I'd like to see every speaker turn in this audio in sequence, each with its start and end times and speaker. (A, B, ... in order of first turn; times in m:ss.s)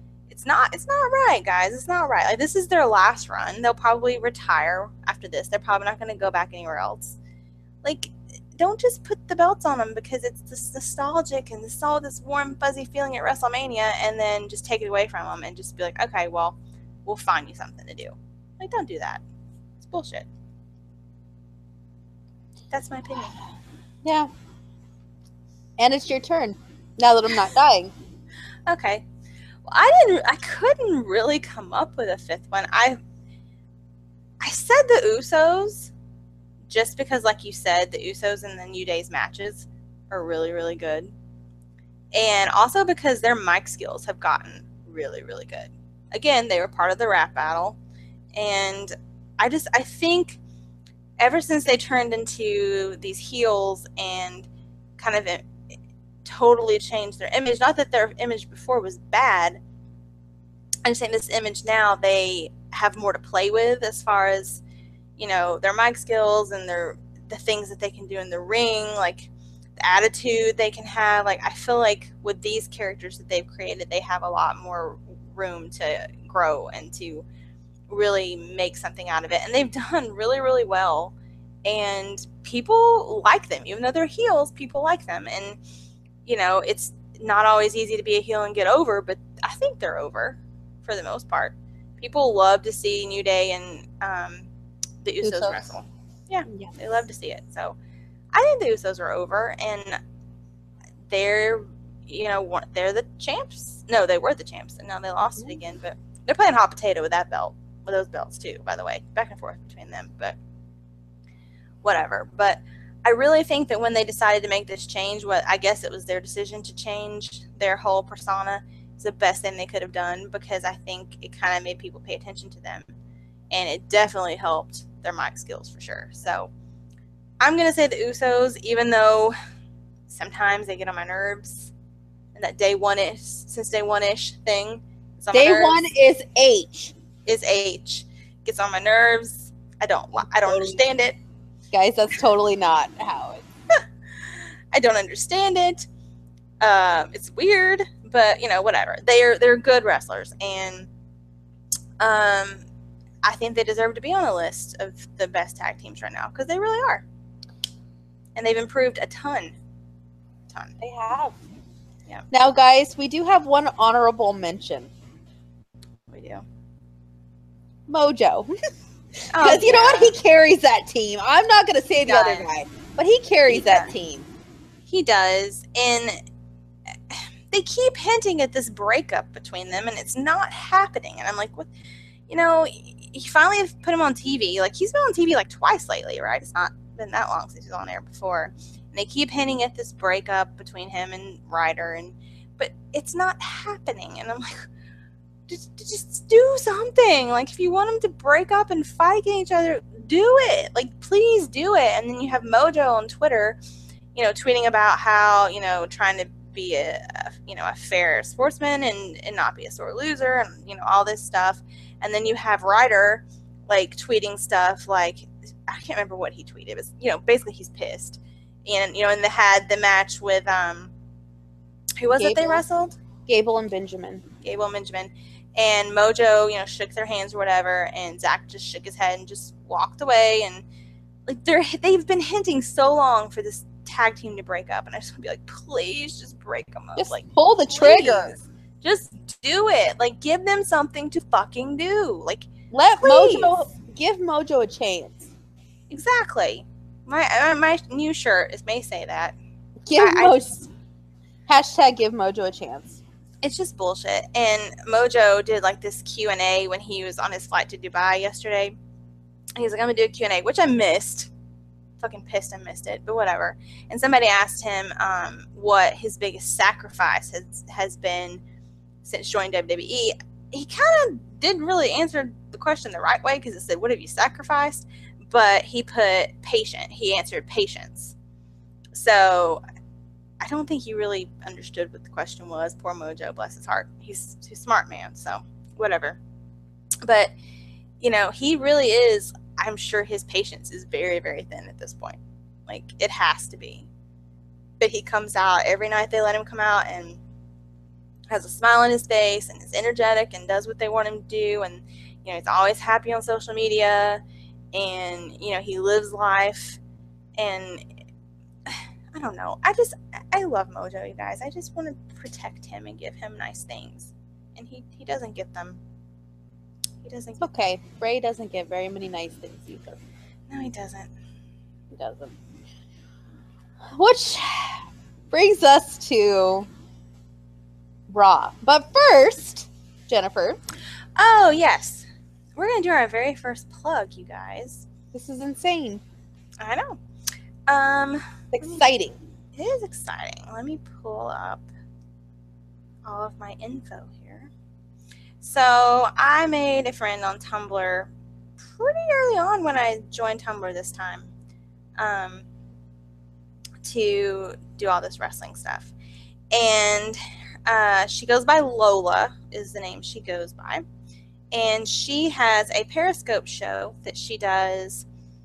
0:00.3-0:07.2 A
0:07.8-0:19.2 A
0:19.8-0:20.3 A
0:22.7-0:23.4 A
0:24.0-0:24.3 B
0:25.8-0:27.9 B
0:28.7-0:29.0 A
0:29.6-0:33.0 A
0:34.4-0:35.9 A
0:36.7-0:41.1 A
0:42.1-0:47.8 A
0:48.3-0:50.4 A
0:51.2-0:54.5 A
0:55.0-0:55.4 A
0:56.2-0:59.6 A
1:00.8-1:04.6 A
1:05.2-1:17.2 A
1:17.9-1:21.1 A
1:21.6-1:25.6 A
1:26.2-1:34.5 A
1:35.0-1:37.8 A
1:35.2-1:35.7 B
1:36.5-1:36.7 B
1:38.3-1:40.0 A
1:41.1-1:50.4 A
1:51.8-2:02.9 A
2:03.5-2:06.5 A
2:07.4-2:09.4 A
2:10.1-2:11.7 A
2:12.3-2:15.8 A
2:15.3-2:16.9 B
2:17.2-2:21.2 A
2:20.2-2:20.8 B
2:21.7-2:23.4 B
2:24.7-2:25.8 A
2:26.6-2:30.9 A
2:32.0-2:32.6 A
2:33.2-2:37.0 A
2:38.4-2:39.6 A
2:40.8-2:41.4 B
2:42.3-2:44.9 B
2:46.1-2:46.4 A
2:47.9-2:48.5 B
2:49.3-2:50.2 A
2:49.3-2:54.2 B
2:52.0-2:52.5 A
2:53.5-2:53.9 A
2:54.9-2:56.2 A
2:57.1-3:01.7 A
3:02.3-3:14.6 A
3:15.5-3:23.6 A
3:24.1-3:40.9 A
3:42.0-3:43.0 A
3:42.1-3:42.6 B
3:43.3-3:44.2 B
3:44.4-3:50.6 A
3:51.3-4:03.5 A
3:57.0-3:58.4 B
4:02.7-4:05.3 B
4:05.9-4:09.3 A
4:09.8-4:10.7 B
4:10.0-4:10.5 A
4:11.5-4:13.0 B
4:13.4-4:18.7 A
4:19.6-4:21.3 A
4:22.0-4:28.4 A
4:29.0-4:38.1 A
4:38.9-4:39.6 A
4:40.4-4:46.2 A
4:47.0-4:47.3 A
4:48.0-4:53.9 A
4:54.8-4:57.2 A
4:58.3-5:04.2 A
5:04.7-5:06.8 A
5:07.4-5:07.8 A
5:08.7-5:15.8 A
5:17.0-5:17.5 A
5:17.4-5:20.0 B
5:20.5-5:21.1 A
5:21.9-5:22.3 B
5:23.9-5:26.7 B
5:28.1-5:30.6 B
5:31.2-5:34.8 A
5:35.1-5:36.0 B
5:36.6-5:37.0 A
5:37.7-5:38.8 A
5:38.5-5:39.2 B
5:39.6-5:41.6 A
5:43.0-5:44.5 A
5:45.4-5:48.1 A
5:48.6-5:51.3 A
5:52.0-5:52.4 A
5:53.8-5:55.9 A
5:56.5-6:00.8 A
6:01.5-6:05.0 A